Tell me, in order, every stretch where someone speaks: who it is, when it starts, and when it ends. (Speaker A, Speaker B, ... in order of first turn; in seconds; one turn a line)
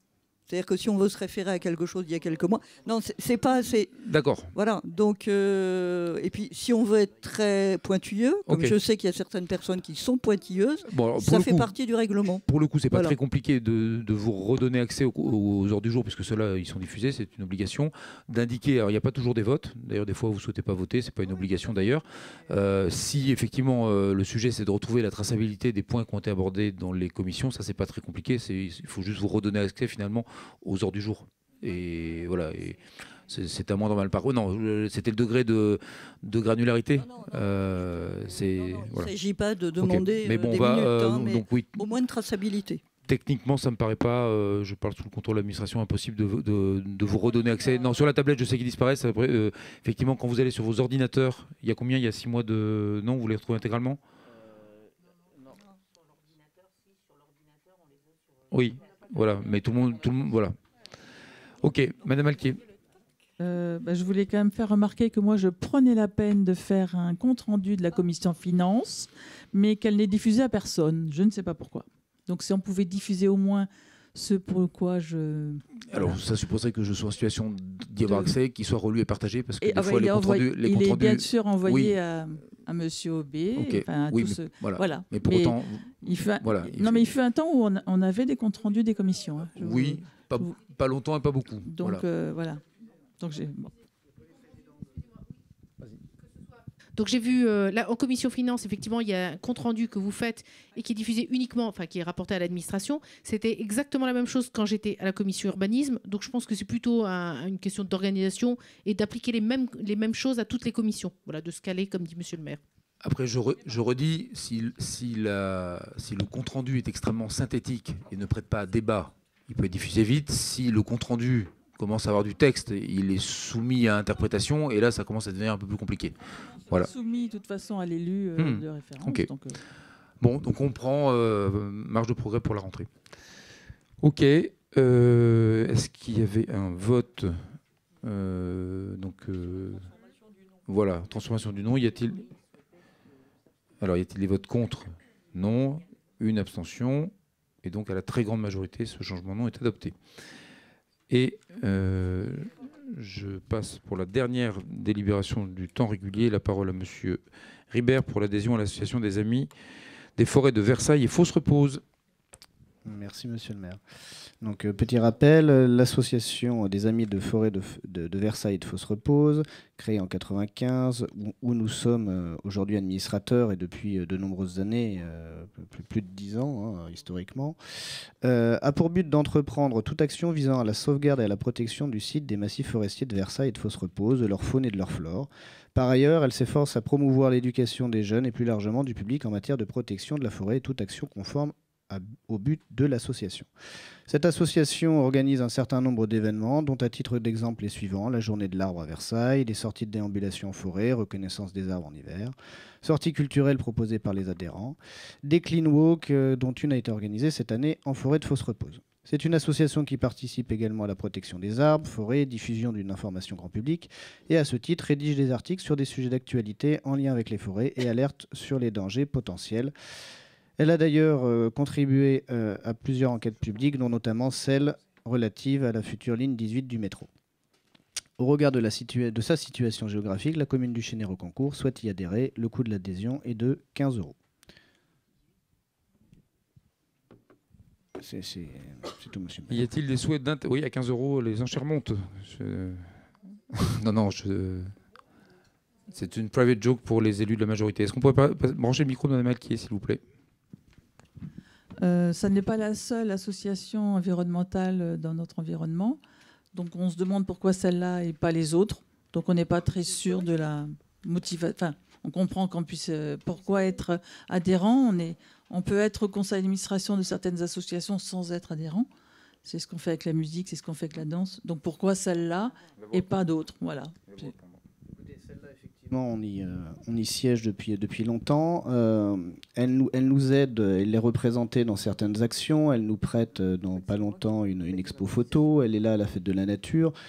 Speaker A: 0.5-4.0
Speaker B: 3.9-4.5
Speaker A: 4.5-13.2
Speaker B: 8.5-8.7
Speaker B: 10.8-11.7
Speaker B: 12.4-39.1
Speaker A: 38.8-42.8
Speaker B: 39.8-41.8
Speaker B: 43.1-54.0
Speaker B: 58.5-60.6
Speaker B: 61.6-62.6
Speaker C: 63.4-76.2
Speaker B: 75.9-82.0
Speaker C: 78.1-78.3
Speaker C: 79.6-90.6
Speaker B: 83.5-87.1
Speaker B: 89.5-92.0
Speaker C: 91.7-92.6
Speaker C: 93.2-93.7
Speaker D: 97.0-112.6
Speaker B: 113.0-126.9
Speaker C: 126.8-129.6
Speaker B: 128.4-129.3
Speaker B: 130.2-132.9
Speaker B: 134.0-137.5
Speaker B: 138.0-139.8
Speaker B: 140.7-142.3
Speaker B: 143.8-149.9
Speaker B: 151.1-159.5
Speaker B: 160.2-161.8
Speaker E: 162.8-163.8
Speaker E: 164.4-177.6
Speaker E: 178.2-193.5
Speaker E: 194.1-219.7
Speaker E: 220.6-227.1
Speaker E: 228.2-234.2
Speaker E: 238.0-239.6
Speaker B: 239.5-244.7
Speaker B: 245.9-250.0
Speaker C: 251.8-256.0
Speaker C: 256.5-268.9
Speaker C: 269.4-274.3
Speaker B: 272.8-273.1
Speaker B: 274.1-274.6
Speaker E: 275.8-286.9